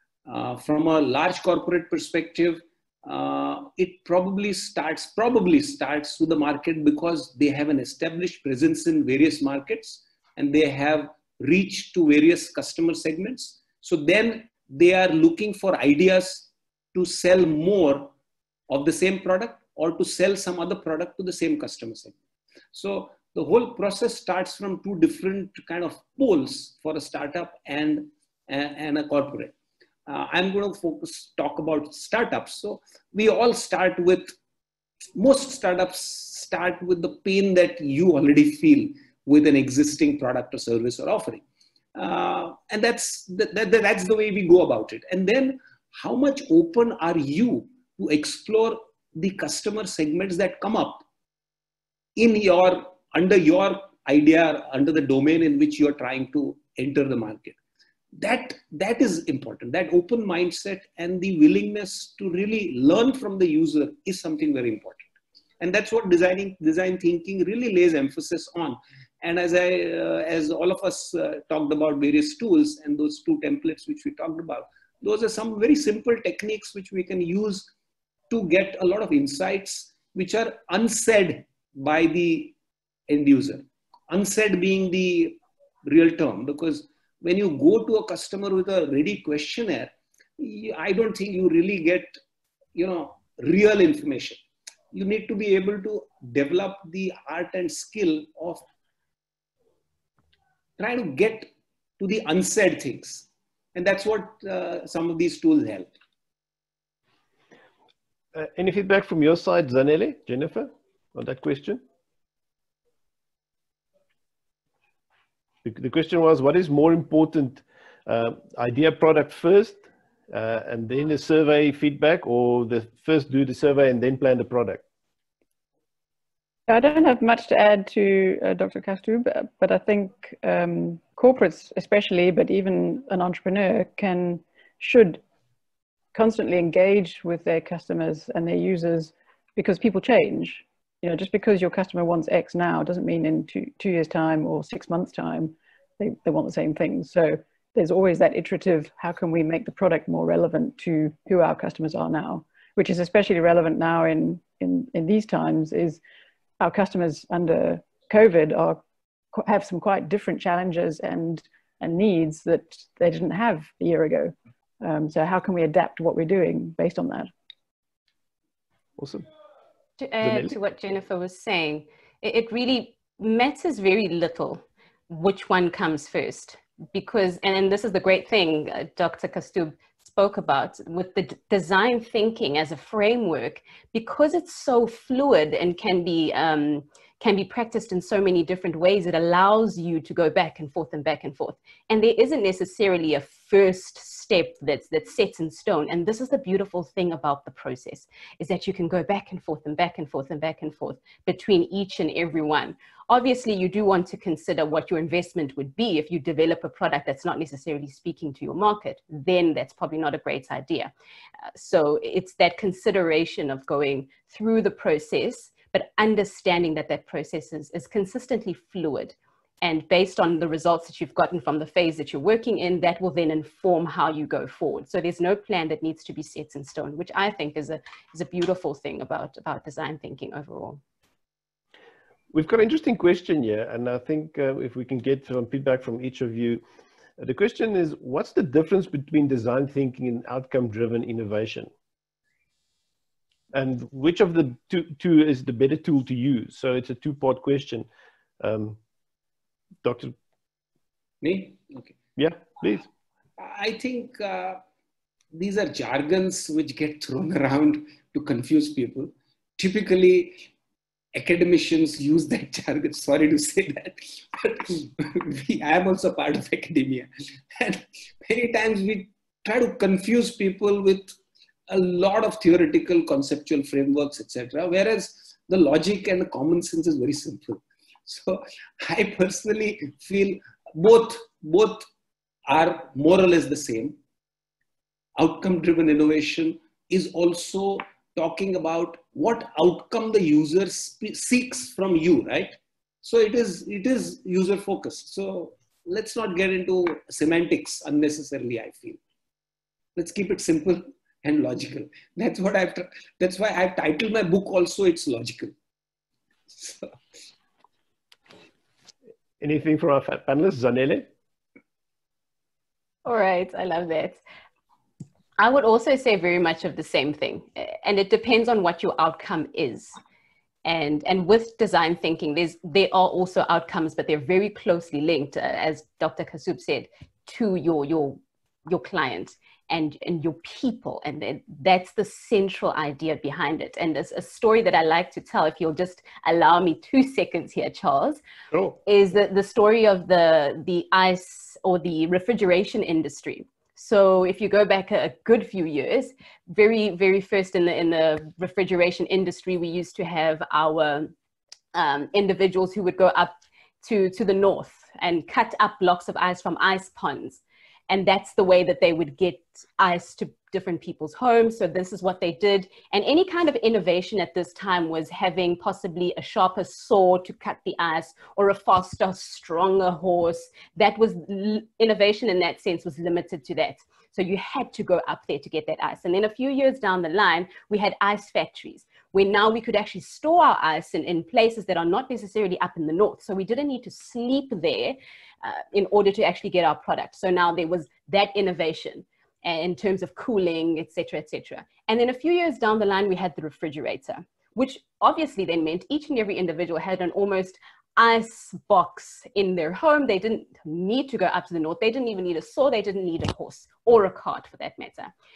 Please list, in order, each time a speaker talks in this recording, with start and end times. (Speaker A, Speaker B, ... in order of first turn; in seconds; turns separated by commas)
Speaker A: 0.3-18.1, Speaker A: 18.7-22.1, Speaker A: 22.7-29.6, Speaker A: 30.1-34.4, Speaker A: 35.1-41.4, Speaker A: 42.0-51.0, Speaker A: 52.2-57.6, Speaker A: 58.1-65.0, Speaker A: 65.6-77.7, Speaker A: 78.3-82.5, Speaker A: 83.1-92.2, Speaker A: 92.8-98.6, Speaker A: 100.8-105.9, Speaker B: 108.3-111.8, Speaker B: 115.6-124.8, Speaker C: 126.7-135.2, Speaker C: 136.1-156.0, Speaker C: 156.6-158.8, Speaker C: 159.3-167.3, Speaker B: 169.0-169.3, Speaker D: 170.0-210.9, Speaker B: 170.2-170.5, Speaker D: 211.6-230.8, Speaker B: 232.3-236.6, Speaker B: 237.2-241.7, Speaker B: 243.5-247.9, Speaker B: 248.4-248.8, Speaker B: 249.8-250.2, Speaker A: 251.2-251.9, Speaker B: 252.2-252.9, Speaker A: 253.4-254.6, Speaker A: 255.3-260.5, Speaker A: 261.1-271.1, Speaker A: 271.7-281.9, Speaker A: 282.5-284.0, Speaker A: 285.2-299.0, Speaker A: 300.0-305.5, Speaker A: 306.5-306.9, Speaker B: 309.4-311.1, Speaker D: 313.1-314.2, Speaker D: 315.4-320.0, Speaker D: 320.6-338.2, Speaker B: 338.5-338.8, Speaker D: 338.9-351.1, Speaker D: 351.7-405.1